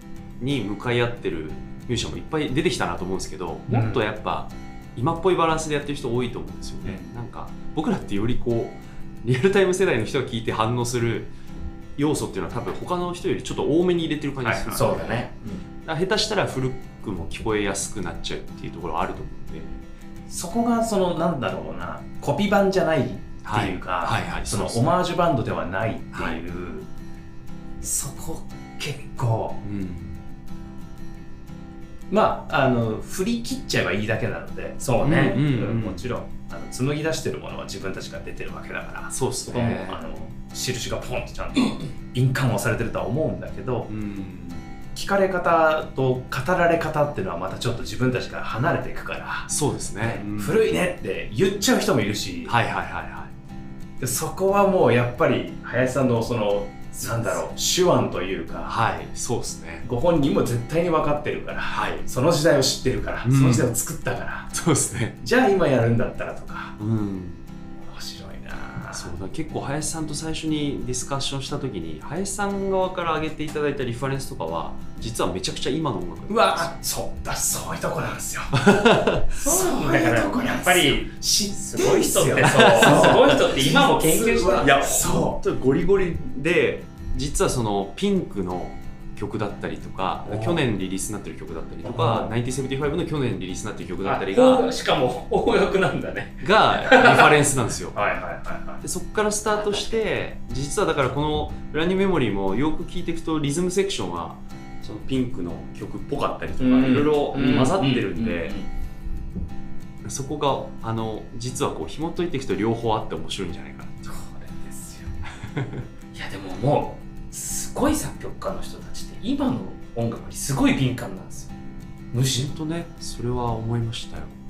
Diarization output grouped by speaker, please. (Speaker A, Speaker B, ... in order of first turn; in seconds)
Speaker A: 0.4-11.3, 12.0-15.3, 15.8-19.8, 23.4-24.9, 26.1-26.4, 29.6-30.1, 35.0-36.0, 39.1-40.0, 43.9-44.7, 49.5-50.6, 52.5-53.3, 58.7-59.8, 61.7-62.0, 63.2-63.7, 64.5-65.2, 66.8-67.4, 68.9-76.7, 78.5-79.2, 82.4-83.3, 84.6-94.7, 96.4-98.0, 98.8-108.5, 110.0-114.0, 115.5-115.8, 122.2-124.3
Speaker B: 3.7-4.0, 6.8-7.1, 14.4-15.0, 20.3-26.9, 27.8-29.6, 32.1-43.9, 44.9-49.5, 50.0-52.5, 54.0-58.8, 59.8-64.5, 65.2-66.8, 67.8-69.1, 76.3-85.4, 90.2-90.6, 91.8-92.3, 97.9-98.8, 106.6-108.0
Speaker C: 14.7-15.6, 34.8-35.4, 79.3-84.7, 94.0-97.3, 107.0-108.7, 114.0-115.1, 116.1-121.5